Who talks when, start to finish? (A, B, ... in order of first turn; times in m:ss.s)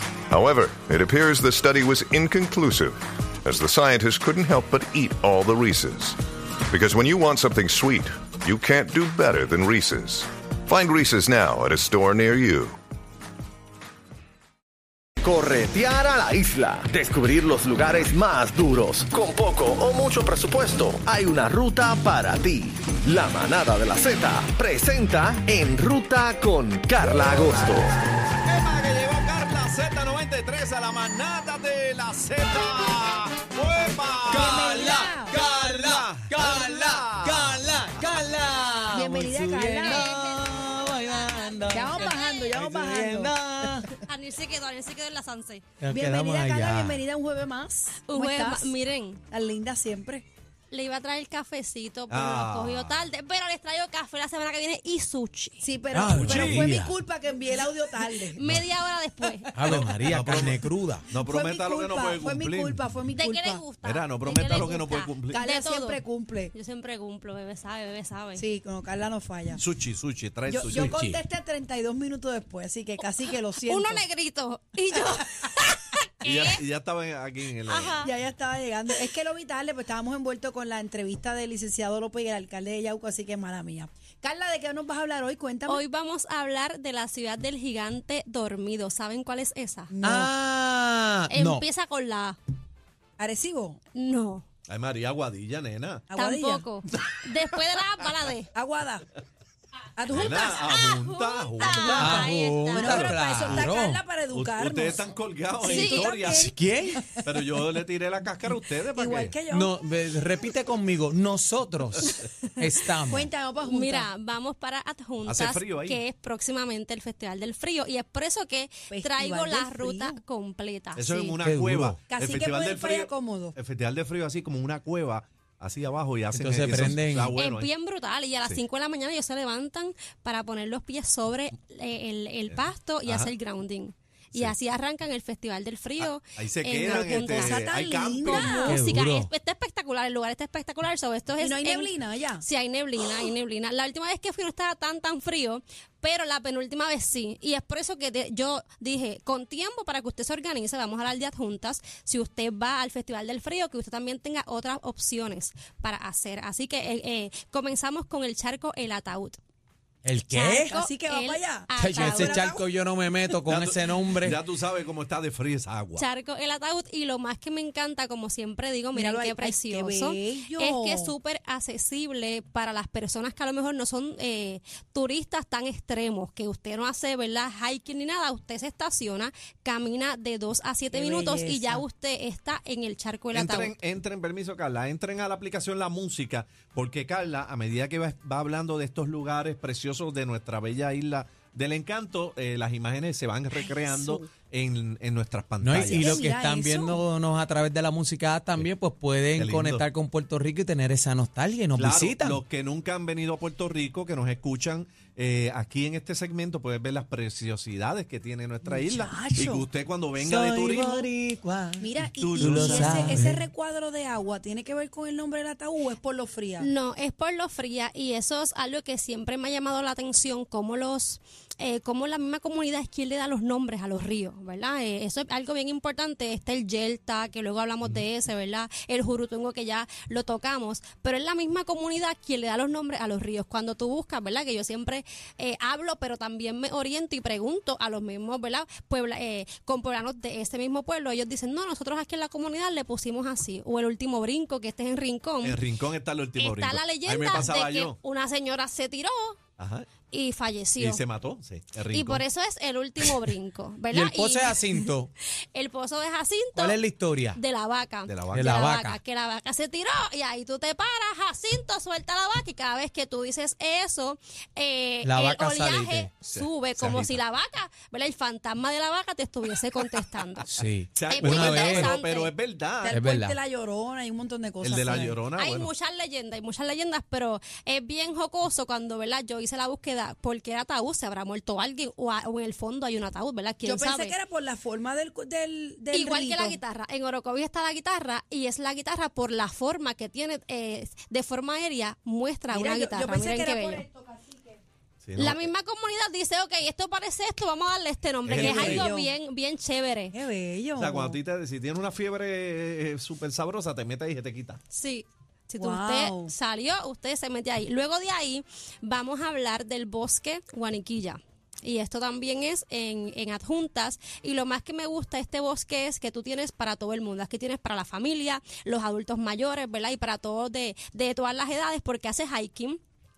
0:00.3-0:12.8 A
0:15.2-0:28.0 B
0:28.4-0:38.1 C
0:34.3-0:43.9 D
0:34.3-0:35.4 E
0:38.9-0:40.1 E
0:39.8-0:42.6 F
0:41.7-0:43.8 E
0:44.0-0:45.6 F
0:45.8-0:47.0 D
0:45.9-0:48.7 E
0:48.0-0:49.2 F
0:49.3-0:50.2 E
0:50.7-0:55.7 F
0:52.1-0:53.0 C
0:55.6-0:58.4 E
0:55.9-0:57.0 D
0:56.2-0:56.7 C
0:58.3-0:59.5 F
0:59.5-1:01.1 D
0:59.6-1:02.8 C
1:01.2-1:03.6 E
1:03.1-1:06.0 F
1:03.8-1:05.4 C
1:05.3-1:06.5 E
1:06.5-1:08.5 F
1:08.4-1:09.6 E
1:09.5-1:11.2 C
1:10.5-1:14.0 E
1:10.7-1:11.0 D
1:13.6-1:16.6 F
1:16.2-1:18.1 C
1:17.7-1:18.1 F
1:18.0-1:25.8 E
1:25.7-1:29.9 F
1:29.9-1:30.3 E
1:30.0-1:31.6 D
1:31.3-1:32.4 F
1:33.2-1:33.8 E
1:33.9-1:34.4 F
1:34.7-1:36.1 C
1:36.1-1:36.7 E
1:36.2-1:38.5 F
1:38.5-1:39.1 E
1:40.0-1:40.7 E
1:40.1-1:42.2 C
1:40.2-1:43.1 F
1:41.6-1:47.3 E
1:41.9-1:44.0 D
1:42.8-1:43.1 C
1:44.3-1:46.5 C
1:45.6-1:46.2 F
1:46.3-1:47.0 D
1:47.2-1:49.4 C
1:48.9-1:49.8 E
1:49.5-1:53.3 D
1:53.1-1:54.1 E
1:53.6-2:01.4 F
1:55.2-1:56.0 C
1:58.9-2:00.2 E
2:01.0-2:07.7 C
2:01.4-2:02.0 D
2:02.1-2:03.5 E
2:06.3-2:07.3 D
2:07.3-2:17.7 F
2:12.5-2:13.3 C
2:16.0-2:18.6 C
2:16.8-2:18.8 E
2:18.2-2:39.4 F
2:18.7-2:19.3 D
2:21.4-2:22.4 E
2:40.0-2:40.7 D
2:40.3-2:42.6 E
2:40.4-2:42.6 F
2:41.8-2:44.4 D
2:43.4-2:46.0 C
2:46.0-3:03.7 F
2:48.9-2:51.1 E
3:00.9-3:01.8 E
3:03.3-3:16.2 C
3:15.6-3:22.4 D
3:15.8-3:17.0 E
3:19.3-3:19.8 C
3:21.8-3:31.1 C
3:28.7-3:29.7 E
3:30.2-3:33.4 D
3:31.8-3:36.7 E
3:32.2-3:33.2 C
3:36.6-4:05.6 F
4:05.4-4:08.0 C
4:06.4-4:09.4 F
4:09.6-4:09.9 C
4:10.1-4:11.0 F
4:10.8-4:12.2 C
4:11.9-4:16.8 F
4:13.9-4:15.1 D
4:16.6-4:17.4 D
4:17.3-4:30.5 F
4:18.1-4:18.7 C
4:18.3-4:19.0 D
4:25.0-4:26.1 D
4:26.3-4:27.2 C
4:30.4-4:31.9 D
4:30.9-4:33.0 C
4:31.1-4:32.3 F
4:32.8-4:35.2 E
4:32.9-4:33.4 D
4:34.6-4:35.7 C
4:35.4-4:44.2 F
4:43.6-4:46.6 E
4:45.9-4:53.8 F
4:52.5-4:54.6 E
4:55.0-4:55.5 C
4:55.2-5:00.2 F
4:58.2-4:58.9 C
4:58.3-4:59.1 E
5:00.1-5:01.2 E
5:00.8-5:04.6 C
5:04.7-5:22.8 F
5:05.5-5:06.3 E